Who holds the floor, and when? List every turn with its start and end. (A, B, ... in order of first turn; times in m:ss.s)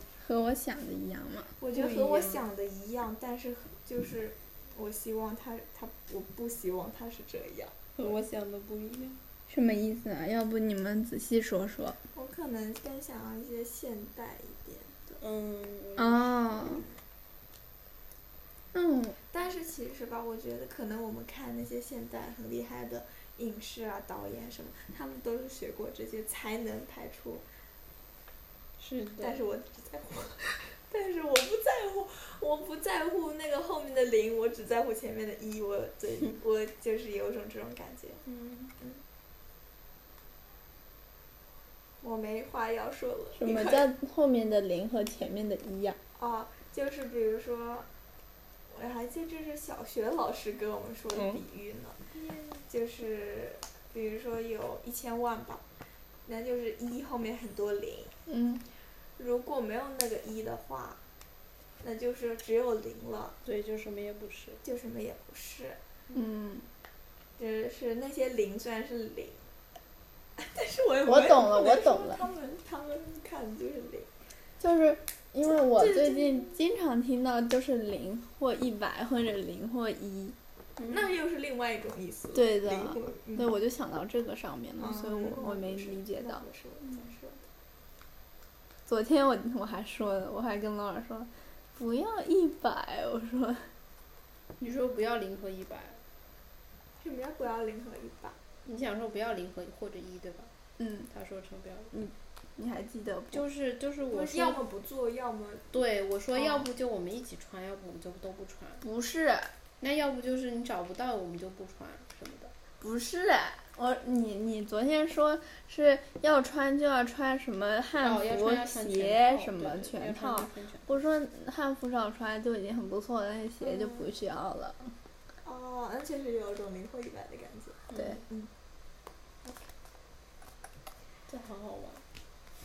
0:00.2-0:01.6 A
0:01.6-0:08.2 B
0:01.7-0:02.4 C
0:08.0-0:09.2 C
0:09.5-0:12.0 A
0:12.1-0:15.2 B
0:15.2-0:16.8 C
0:16.0-0:16.8 A
0:18.7-0:19.2 A
0:19.3-0:27.4 B
0:28.8-0:29.4 C
0:29.2-0:38.2 B
0:38.2-0:38.7 C
0:42.0-0:43.9 B
0:43.3-0:46.0 A
0:46.2-0:47.9 B
0:48.7-0:55.6 B
0:56.2-0:58.1 B
0:58.3-0:58.6 A
0:59.2-1:01.0 B
1:01.8-1:03.4 B
1:03.4-1:04.6 C
1:04.6-1:05.8 B
1:06.1-1:06.7 A
1:07.4-1:09.5 B
1:10.4-1:14.1 B
1:11.0-1:12.3 A
1:14.6-1:20.4 A
1:15.7-1:16.6 B
1:20.8-1:21.1 C
1:20.9-1:23.5 B
1:22.3-1:26.4 A
1:24.8-1:27.4 B
1:28.8-1:33.7 A
1:34.6-1:36.0 C
1:37.0-1:38.4 B
1:38.6-1:40.5 C
1:40.8-1:41.1 A
1:41.1-1:41.9 C
1:41.9-1:43.4 A
1:43.3-1:44.6 C
1:44.1-1:45.7 B
1:45.7-1:48.9 C
1:46.3-1:46.7 B
1:48.8-1:49.5 A
1:49.8-1:52.5 C
1:52.8-2:04.9 A
1:58.0-2:00.9 C
2:03.6-2:04.1 B
2:05.4-2:08.5 B
2:07.9-2:08.2 C
2:07.9-2:08.2 A
2:11.3-2:12.0 C